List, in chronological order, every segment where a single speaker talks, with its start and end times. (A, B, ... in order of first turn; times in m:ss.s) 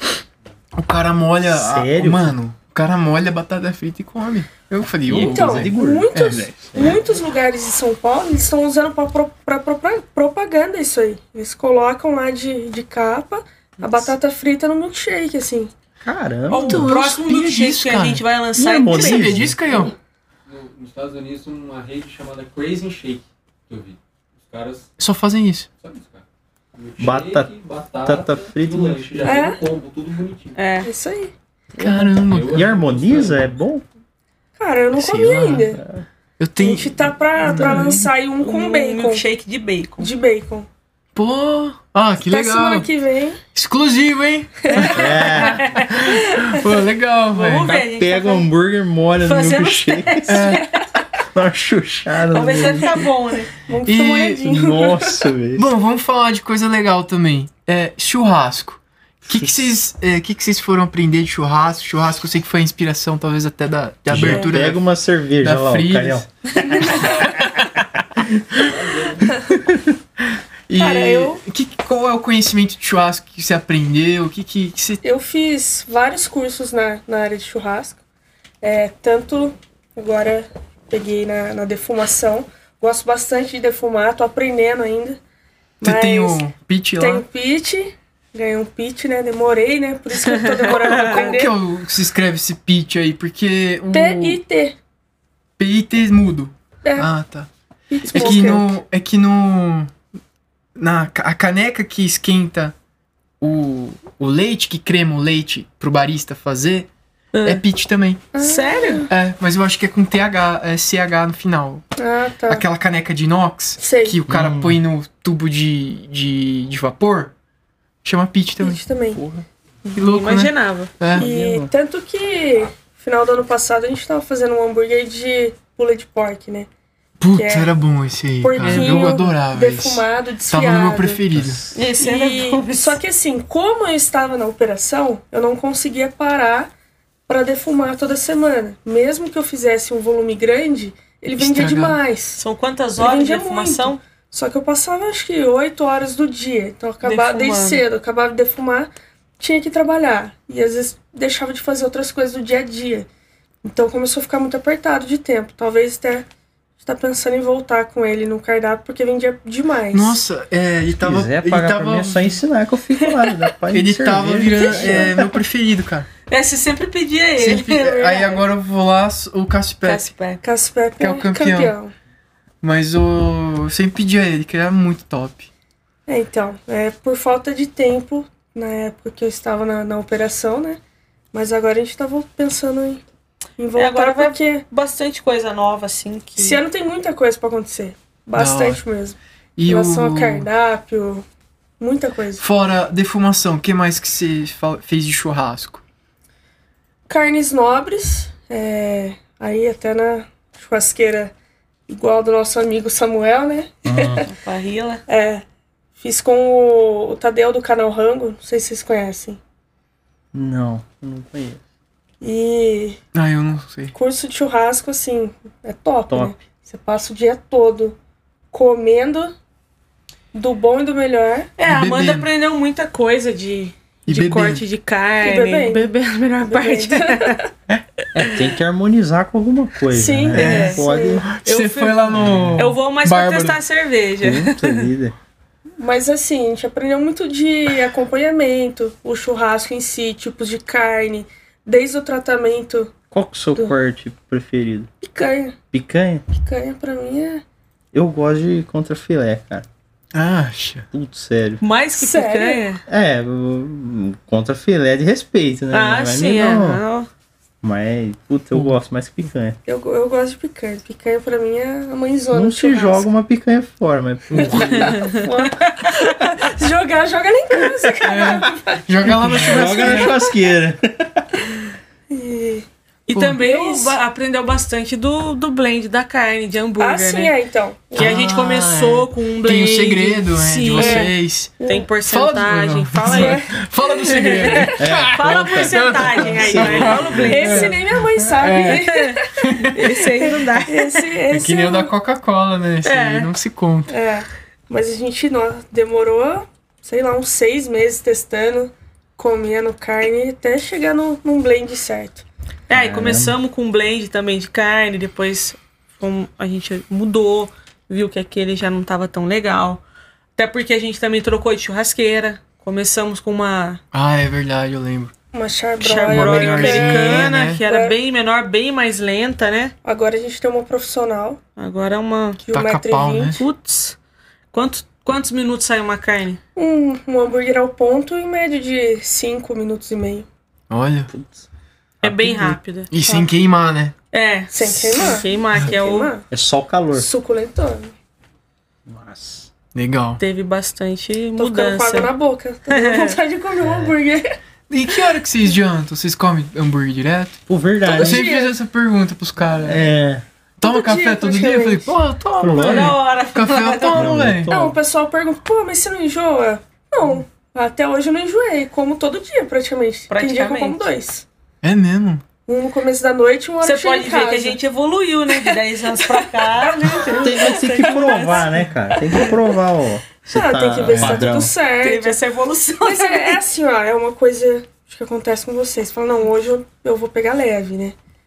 0:00.8-0:06.4 A
0:01.5-0:02.4 B
0:05.1-0:07.0 B
0:05.1-0:15.7 C
0:16.0-0:16.9 B
0:16.5-0:19.5 D
0:16.5-0:18.2 A
0:18.6-0:19.6 B
0:18.9-0:19.9 A
0:20.5-0:24.9 E
0:25.0-0:25.7 A
0:25.8-0:26.2 E
0:26.8-0:30.6 E
0:27.0-0:29.2 B
0:29.2-0:29.6 C
0:30.6-0:30.9 D
0:30.8-0:31.3 C
0:31.8-0:32.6 A
0:31.8-0:33.8 B
0:32.3-0:33.6 E
0:34.6-0:35.8 C
0:35.0-0:35.7 A
0:36.4-0:38.1 A
0:36.6-0:39.2 C
0:38.4-0:40.1 D
0:40.0-0:40.7 C
0:41.2-0:42.9 A
0:42.2-0:43.4 C
0:43.5-0:47.8 A
0:44.7-0:45.0 C
0:44.8-0:45.9 D
0:44.9-0:45.7 B
0:47.3-0:48.5 D
0:47.7-0:50.5 B
0:49.2-0:50.7 D
0:50.3-0:50.6 A
0:51.3-0:53.1 B
0:52.3-0:53.5 D
0:53.6-0:55.2 C
0:53.8-0:54.5 A
0:54.5-0:55.7 B
0:55.6-1:04.9 A
0:59.3-0:59.7 B
1:04.1-1:06.3 B
1:05.4-1:06.2 A
1:06.8-1:07.7 A
1:08.7-1:09.2 E
1:09.5-1:09.8 B
1:10.7-1:15.0 A
1:10.8-1:11.4 D
1:10.8-1:11.4 C
1:15.0-1:18.0 C
1:18.6-1:25.2 C
1:25.8-1:31.5 C
1:25.8-1:27.2 A
1:30.3-1:31.3 D
1:30.9-1:34.4 A
1:33.9-1:34.8 C
1:35.6-1:37.5 A
1:36.8-1:37.1 C
1:37.9-1:38.8 C
1:38.1-1:39.9 A
1:38.2-1:38.6 D
1:40.8-1:42.7 A
1:43.4-1:46.9 A
1:47.3-1:47.6 D
1:47.4-1:48.2 A
1:48.3-1:49.1 C
1:48.4-1:49.1 D
1:49.1-1:51.8 A
1:52.0-1:52.6 C
1:52.5-1:57.3 A
1:53.8-1:54.2 C
1:54.3-1:54.8 B
1:58.0-1:59.3 A
1:58.6-1:59.2 C
1:59.8-2:01.0 D
2:00.0-2:01.3 A
2:01.1-2:01.7 B
2:01.2-2:06.7 C
2:07.2-2:11.6 A
2:07.3-2:07.7 C
2:08.4-2:11.2 C
2:08.6-2:09.1 D
2:11.3-2:11.7 B
2:11.7-2:13.0 D
2:12.0-2:16.7 C
2:17.3-2:22.4 C
2:21.4-2:22.0 A
2:22.4-2:24.0 D
2:23.0-2:33.1 C
2:27.0-2:27.8 D
2:33.6-2:36.3 C
2:36.8-2:40.2 C
2:39.9-2:42.4 A
2:40.9-2:45.4 B
2:43.0-2:43.3 D
2:43.7-2:46.1 A
2:46.3-2:48.4 D
2:47.4-2:50.1 A
2:49.8-2:50.4 D
2:50.4-2:51.9 C
2:51.0-2:51.7 A
2:52.6-2:55.5 A
2:56.1-3:00.8 C
3:01.3-3:03.0 C
3:03.6-3:04.6 C
3:03.8-3:06.6 D
3:06.4-3:11.3 C
3:08.4-3:08.8 A
3:09.6-3:10.5 A
3:11.8-3:12.4 C
3:12.4-3:15.8 A
3:17.1-3:21.3 C
3:21.9-3:24.3 C
3:23.8-3:24.2 B
3:24.3-3:25.0 D
3:25.1-3:25.4 C
3:26.0-3:29.4 C
3:30.3-3:31.6 B
3:32.2-3:33.0 C
3:33.1-3:33.9 A
3:33.9-3:38.0 C
3:36.1-3:36.4 B
3:38.5-3:39.3 C
3:40.3-3:41.5 C
3:41.6-3:47.4 D
3:41.7-3:42.3 A
3:44.1-3:44.6 A
3:45.2-3:45.9 C
3:46.5-3:47.5 C
3:48.2-3:48.5 D
3:48.2-3:51.3 B
3:49.9-3:51.2 C
3:50.3-3:50.9 D
3:51.2-3:53.6 A
3:51.4-3:54.9 D
3:52.2-3:52.6 B
3:54.2-3:55.1 B
3:55.8-4:02.9 C
4:03.1-4:04.9 B
4:05.0-4:05.6 C
4:05.7-4:06.2 B
4:06.3-4:07.4 C
4:07.9-4:09.7 B
4:10.1-4:10.9 A
4:10.9-4:11.6 B
4:11.6-4:12.8 D
4:12.0-4:12.6 C
4:12.9-4:16.8 B
4:15.7-4:17.1 D
4:17.6-4:19.6 B
4:19.7-4:23.0 C
4:22.3-4:25.2 B
4:24.4-4:30.2 C
4:24.9-4:25.3 D
4:28.0-4:28.5 B
4:28.1-4:30.2 A
4:29.1-4:31.3 B
4:32.1-4:32.7 C
4:33.1-4:37.3 D
4:33.1-4:33.4 A
4:33.4-4:34.0 C
4:36.8-4:38.2 C
4:37.9-4:41.1 D
4:38.0-4:49.9 A
4:40.7-4:41.9 C
4:41.6-4:47.8 D
4:43.1-4:43.6 C
4:44.2-4:44.8 C
4:44.8-4:47.6 B
4:46.7-4:51.9 C
4:48.7-4:49.2 D
4:49.7-4:51.1 D
4:51.3-4:53.9 A
4:52.8-4:53.3 D
4:53.9-5:02.2 C
5:02.7-5:09.8 D
5:02.7-5:03.4 B
5:10.4-5:13.8 D
5:13.9-5:15.1 A
5:15.3-5:18.0 C
5:15.8-5:19.7 D
5:15.9-5:17.6 A
5:19.8-5:21.4 C
5:21.6-5:22.4 D
5:22.4-5:23.4 C
5:22.5-5:23.4 A
5:23.4-5:24.0 D
5:24.5-5:26.4 D
5:26.6-5:30.3 C
5:30.7-5:31.1 A
5:31.1-5:31.4 B
5:32.0-5:32.9 D
5:32.0-5:33.9 A
5:34.1-5:36.1 D
5:34.5-5:36.3 C
5:36.3-5:37.1 B
5:37.0-5:37.9 C
5:38.9-5:39.5 B
5:39.8-5:40.2 A
5:40.2-5:42.1 D
5:41.4-5:44.3 C
5:42.7-5:43.2 D
5:43.6-5:44.0 B
5:44.7-5:47.4 A
5:47.5-5:48.3 B
5:47.8-5:48.6 C
5:48.0-5:49.9 A
5:49.5-5:50.2 B
5:50.6-5:54.5 A
5:50.6-5:51.9 C
5:52.4-5:53.0 B
5:52.6-5:54.2 D
5:53.9-5:54.8 B
5:54.5-6:01.2 C
6:00.1-6:00.9 D
6:01.6-6:02.2 A
6:02.5-6:04.6 C
6:03.6-6:08.6 D
6:05.4-6:09.3 C
6:07.1-6:11.5 B
6:10.3-6:12.2 C
6:11.8-6:13.4 D
6:12.8-6:18.0 C